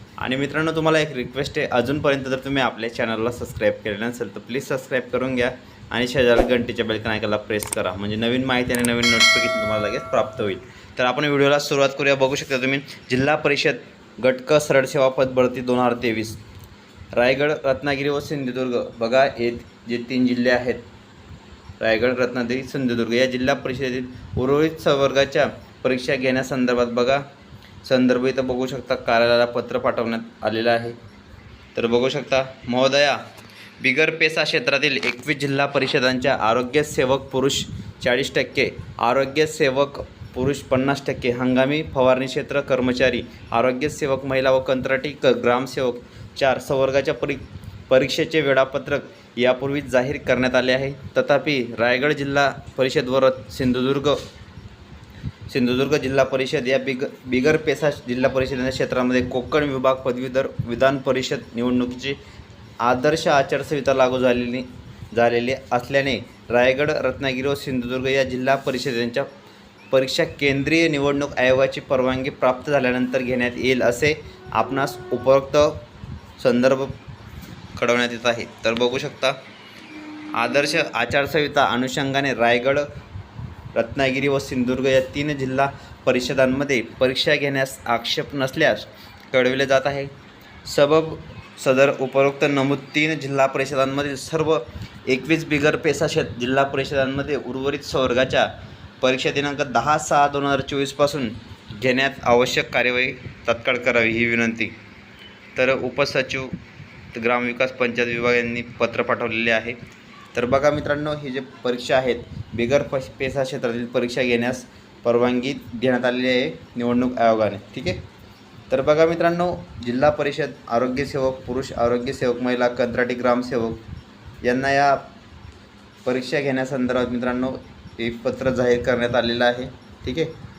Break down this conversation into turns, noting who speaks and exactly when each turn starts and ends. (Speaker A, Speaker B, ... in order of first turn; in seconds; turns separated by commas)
Speaker A: 0.2-16.4, Speaker A: 17.1-20.9, Speaker A: 21.8-27.2, Speaker A: 27.8-31.0, Speaker A: 31.8-33.2, Speaker A: 33.8-54.2, Speaker A: 55.5-62.2, Speaker A: 62.8-69.3, Speaker A: 69.9-75.8, Speaker A: 76.4-77.0, Speaker A: 77.8-79.4, Speaker A: 80.3-82.9, Speaker A: 83.7-90.1, Speaker A: 90.7-104.8, Speaker A: 105.6-106.5, Speaker A: 107.1-109.8, Speaker A: 110.3-118.0, Speaker A: 118.7-123.8, Speaker A: 124.4-125.1, Speaker A: 126.0-130.3